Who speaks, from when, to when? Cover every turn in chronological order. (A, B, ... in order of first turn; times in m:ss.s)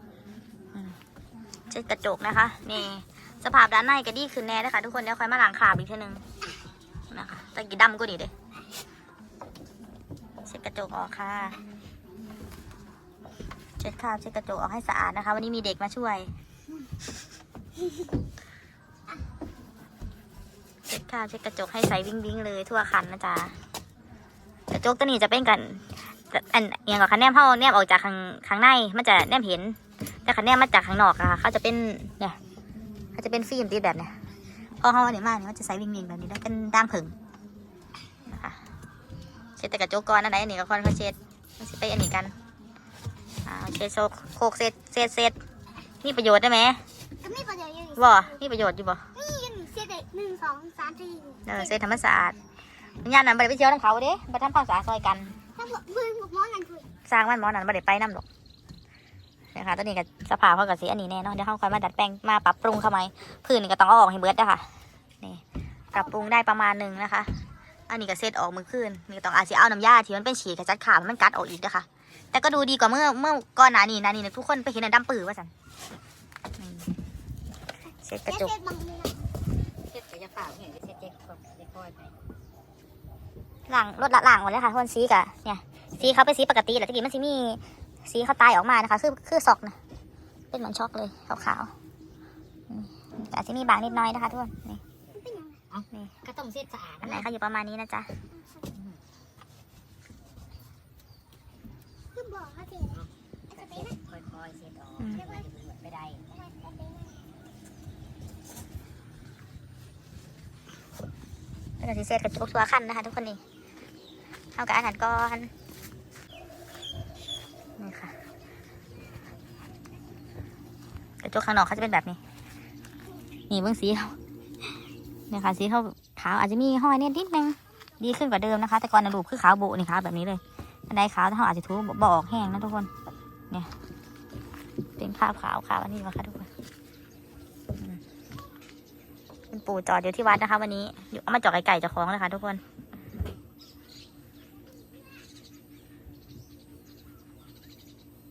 0:01.7-0:06.2 A
0:07.1-0:08.3 A
0:10.4-0:11.6 A
0:13.8-0:16.3 A
0:20.9-0:23.6 A
0:24.7-0:32.4 A
0:33.1-0:34.1 A
0:34.8-0:37.1 A
0:38.3-0:38.6 A
0:39.6-0:42.3 A
0:43.4-0:45.4 A
0:46.0-0:46.8 A
0:47.2-0:48.3 B
0:47.9-0:49.0 A
0:49.1-0:51.8 B
0:51.4-0:52.4 A
0:53.0-0:55.4 A
0:55.6-0:56.9 B
0:57.0-0:58.2 A
0:59.5-1:04.7 A
1:05.9-1:07.3 A
1:07.9-1:15.5 A
1:16.6-1:16.9 A
1:18.0-1:18.5 A
1:18.3-1:19.2 B
1:19.9-1:22.1 C
1:23.7-1:29.8 A
1:30.5-1:31.7 A
1:32.7-1:34.8 A
1:35.1-1:35.6 B
1:35.7-1:37.3 C
1:37.0-1:38.1 A
1:38.4-1:38.7 B
1:42.1-1:43.9 B
1:42.9-1:46.2 C
1:45.1-1:45.4 B
1:46.3-1:47.2 B
1:51.8-1:53.4 A
1:54.6-1:55.5 A
1:57.8-1:58.1 A
2:01.2-2:02.2 A
2:03.5-2:04.2 A
2:05.3-2:12.9 A
2:15.0-2:16.5 A
2:19.5-2:22.6 A